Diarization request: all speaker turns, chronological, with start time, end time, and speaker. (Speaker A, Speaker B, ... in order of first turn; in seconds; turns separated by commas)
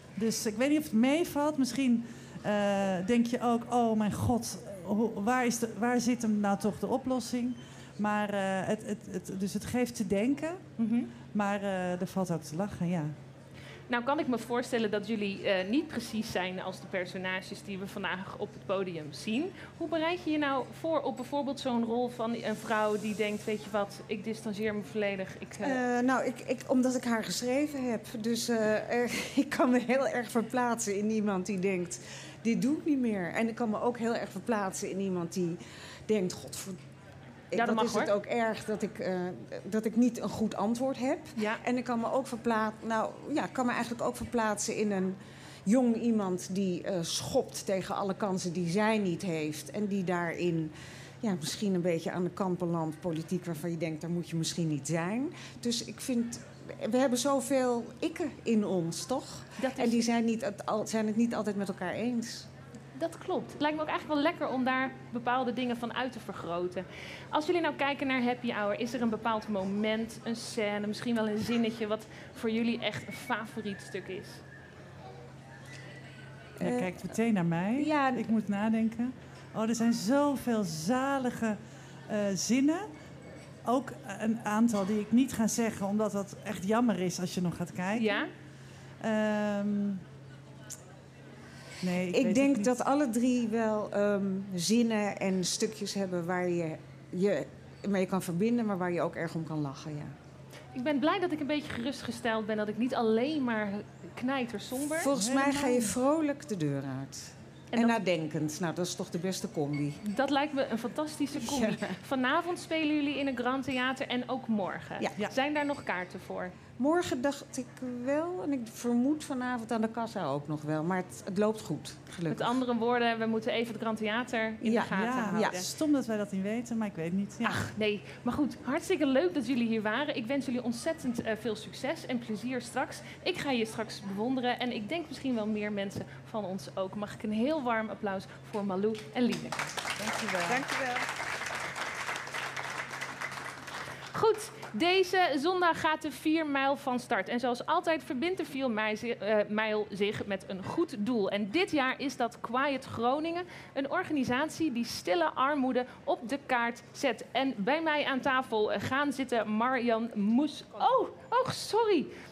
Speaker A: 0.1-10.6, Speaker B: 10.8-11.1, Speaker A: 11.3-13.1, Speaker B: 13.9-25.8, Speaker C: 25.6-36.8, Speaker C: 37.5-62.5, Speaker B: 37.5-38.1, Speaker B: 41.4-41.6, Speaker B: 59.6-60.1, Speaker B: 63.0-74.4, Speaker A: 76.6-81.6, Speaker C: 76.6-77.2, Speaker C: 77.8-78.3, Speaker A: 82.1-82.8, Speaker A: 83.6-88.3, Speaker B: 87.9-88.3, Speaker A: 89.0-90.0, Speaker A: 91.8-92.7, Speaker C: 92.1-100.1, Speaker B: 100.7-105.1, Speaker C: 105.0-110.0, Speaker A: 105.1-105.9, Speaker B: 107.7-108.0, Speaker B: 110.0-116.5, Speaker C: 111.3-112.0, Speaker C: 116.8-122.6, Speaker B: 122.3-125.7, Speaker C: 124.6-125.6, Speaker A: 124.9-127.6, Speaker B: 127.4-139.6, Speaker C: 140.1-141.1, Speaker B: 144.1-162.1